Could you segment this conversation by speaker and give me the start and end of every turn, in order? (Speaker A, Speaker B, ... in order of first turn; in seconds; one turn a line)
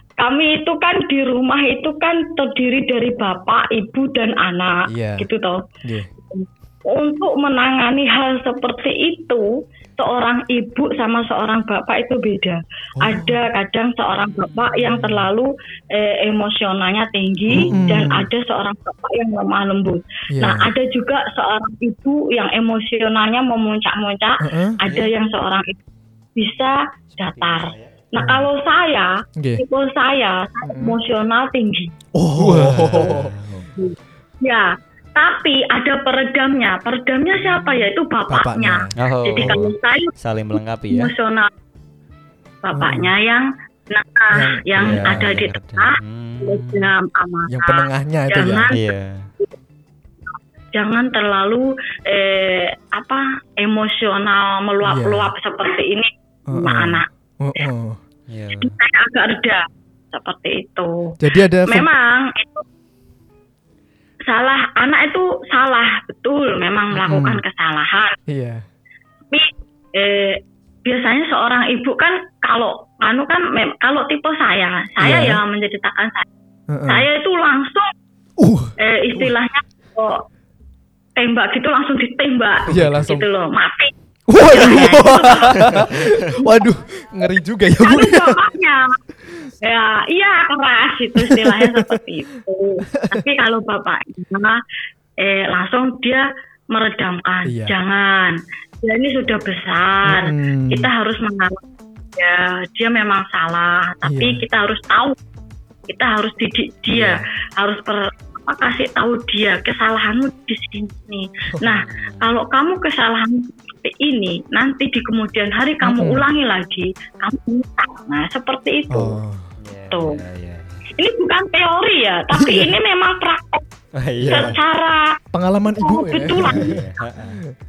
Speaker A: 0.2-5.6
Speaker B: 4.9-5.3
Speaker B: 5.8-6.1
Speaker A: 6.2-25.8
Speaker B: 13.0-13.4
Speaker C: 14.4-15.0
Speaker B: 14.9-15.3
Speaker C: 17.5-18.1
Speaker B: 17.5-18.3
Speaker B: 20.3-20.7
Speaker B: 24.4-24.8
Speaker C: 24.8-25.1
Speaker A: 26.4-31.9
Speaker C: 27.1-28.0
Speaker B: 28.2-28.5
Speaker B: 29.4-29.6
Speaker B: 30.6-31.0
Speaker B: 32.1-33.4
Speaker C: 32.4-33.7
Speaker A: 33.8-40.1
Speaker B: 38.3-39.6
Speaker C: 39.0-41.1
Speaker A: 40.9-41.5
Speaker A: 42.6-48.8
Speaker B: 42.7-43.1
Speaker B: 44.3-45.3
Speaker C: 44.8-46.9
Speaker B: 47.5-48.7
Speaker C: 48.7-49.3
Speaker A: 50.7-57.1
Speaker B: 54.8-55.3
Speaker B: 56.5-58.0
Speaker C: 58.3-58.7
Speaker A: 58.6-62.6
Speaker B: 61.2-61.9
Speaker A: 64.3-68.2
Speaker B: 66.9-67.4
Speaker B: 68.3-68.6
Speaker A: 69.3-76.3
Speaker B: 75.0-75.4
Speaker B: 76.7-77.1
Speaker A: 76.9-77.9
Speaker B: 78.4-79.3
Speaker A: 78.8-80.2
Speaker A: 81.2-86.7
Speaker B: 82.7-83.3
Speaker B: 84.3-88.4
Speaker C: 84.5-86.3
Speaker A: 87.8-89.0
Speaker A: 89.6-94.6
Speaker B: 91.2-92.0
Speaker B: 92.9-93.2
Speaker A: 95.2-101.6
Speaker B: 97.5-97.7
Speaker B: 100.0-100.9
Speaker A: 102.2-105.2
Speaker B: 104.0-104.4
Speaker A: 105.9-119.2
Speaker B: 106.9-107.2
Speaker C: 111.7-112.3
Speaker B: 115.8-116.3
Speaker B: 118.9-119.5
Speaker C: 119.6-120.8
Speaker A: 119.9-120.2
Speaker A: 121.0-123.6
Speaker B: 122.3-122.8
Speaker C: 124.0-124.6
Speaker B: 124.2-124.5
Speaker A: 124.3-125.2
Speaker B: 125.3-127.5
Speaker A: 125.7-126.8
Speaker C: 126.4-127.4